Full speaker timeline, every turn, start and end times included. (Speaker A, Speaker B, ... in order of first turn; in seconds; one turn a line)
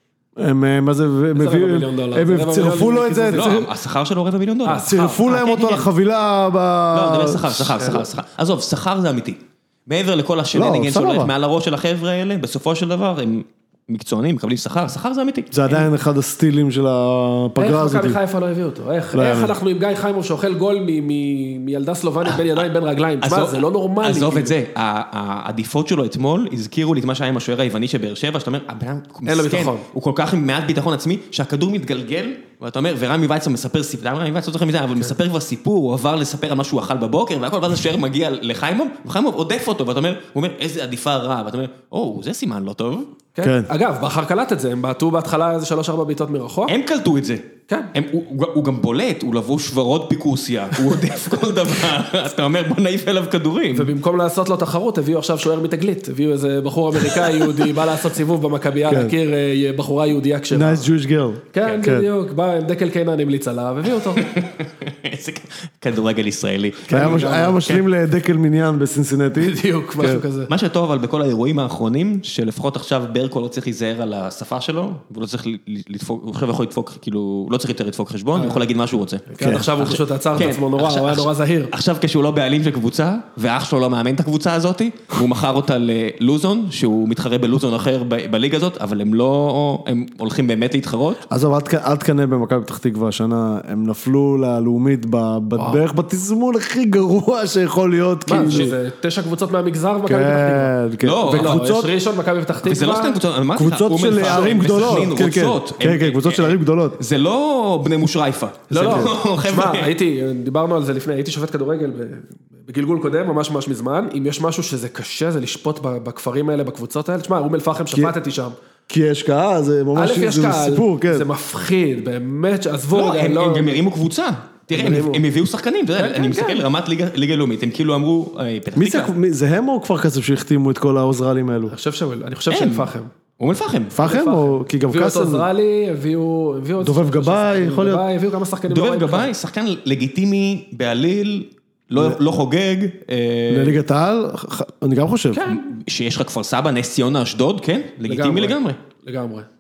Speaker A: 0.4-3.7
Speaker B: 1.3-3.6
Speaker C: 3.3-5.9
Speaker B: 4.6-5.3
Speaker A: 4.8-8.1
Speaker C: 6.9-15.9
Speaker A: 10.5-11.3
Speaker A: 15.5-18.2
Speaker B: 17.6-24.6
Speaker A: 19.1-19.6
Speaker C: 23.2-43.1
Speaker B: 29.3-29.9
Speaker B: 43.4-46.8
Speaker A: 43.4-43.7
Speaker C: 46.7-53.9
Speaker B: 53.7-60.9
Speaker C: 57.1-57.8
Speaker A: 58.9-59.1
Speaker A: 60.5-62.1
Speaker B: 61.5-64.3
Speaker C: 64.1-67.8
Speaker B: 66.9-67.7
Speaker A: 66.9-70.2
Speaker B: 69.4-70.5
Speaker C: 70.5-91.2
Speaker B: 78.3-78.7
Speaker B: 79.3-81.7
Speaker A: 79.4-79.7
Speaker A: 91.3-98.8
Speaker B: 95.6-95.8
Speaker B: 98.3-103.2
Speaker A: 100.1-101.9
Speaker C: 101.0-101.6
Speaker C: 102.6-109.9
Speaker A: 103.5-107.0
Speaker B: 104.2-105.1
Speaker B: 108.7-118.5
Speaker A: 108.8-109.1
Speaker A: 118.9-121.3
Speaker B: 120.0-123.8
Speaker C: 122.9-129.1
Speaker B: 124.7-125.2
Speaker B: 126.0-126.6
Speaker A: 128.8-131.7
Speaker B: 131.7-133.1
Speaker C: 132.5-134.0
Speaker A: 133.9-135.5
Speaker B: 134.0-139.3
Speaker A: 136.8-138.1
Speaker C: 138.7-143.8
Speaker A: 143.5-145.4
Speaker B: 145.3-145.7
Speaker C: 145.5-148.8
Speaker B: 148.1-149.5